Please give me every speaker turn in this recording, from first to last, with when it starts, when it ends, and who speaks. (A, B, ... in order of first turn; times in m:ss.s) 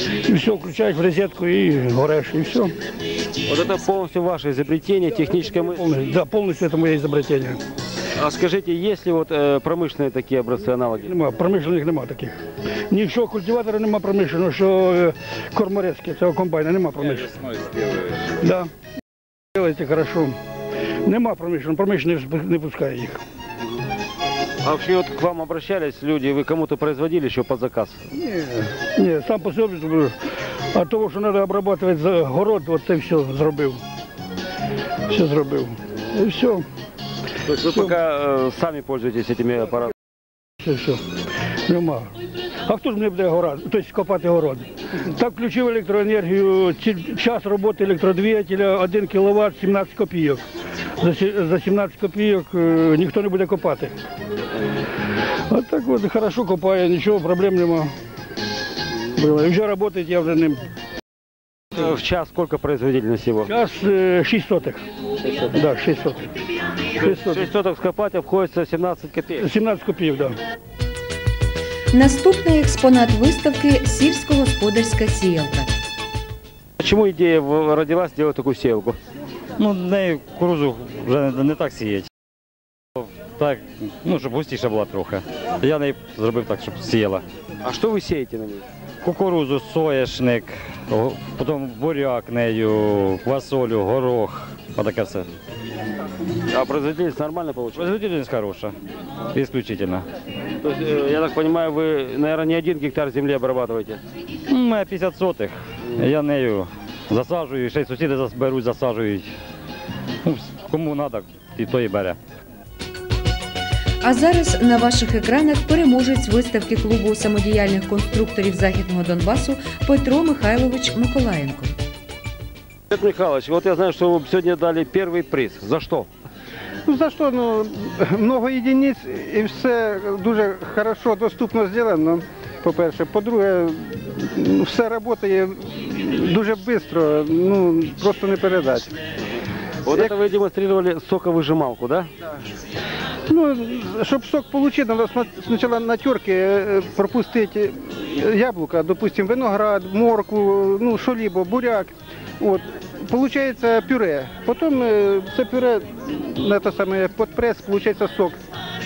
0:00.2-0:02.7 A
0:03.4-0:05.9 B
0:05.6-0:07.6 A
0:08.2-0:11.1 B
0:11.1-0:12.4 A
0:12.9-0:17.4 A
0:18.4-0:18.7 A
0:19.5-0:20.4 A
0:21.0-0:23.2 A
0:24.6-0:28.0 B
0:28.2-0:30.2 A
0:30.7-0:33.8 A
0:35.1-0:36.7 A
0:37.5-0:39.9 B
0:40.6-0:41.0 A
0:41.7-0:42.1 A
0:42.6-0:50.4 A
0:51.0-0:54.0 A
0:55.5-0:57.9 A
0:59.2-1:00.6 A
1:01.7-1:03.5 B
1:03.5-1:04.8 A
1:05.5-1:06.3 A
1:07.0-1:09.5 B
1:07.0-1:07.4 A
1:09.4-1:10.4 A
1:11.9-1:15.7 C
1:16.8-1:19.0 B
1:19.6-1:22.1 D
1:23.0-1:27.2 D
1:27.6-1:28.6 B
1:29.0-1:35.3 D
1:36.5-1:38.0 B
1:37.8-1:38.7 D
1:39.3-1:40.0 D
1:40.6-1:44.0 B
1:44.5-1:49.3 D
1:50.2-1:52.2 D
1:54.0-2:01.7 C
2:02.9-2:06.1 B
2:06.9-2:19.0 E
2:19.9-2:22.1 B
2:23.3-2:38.4 E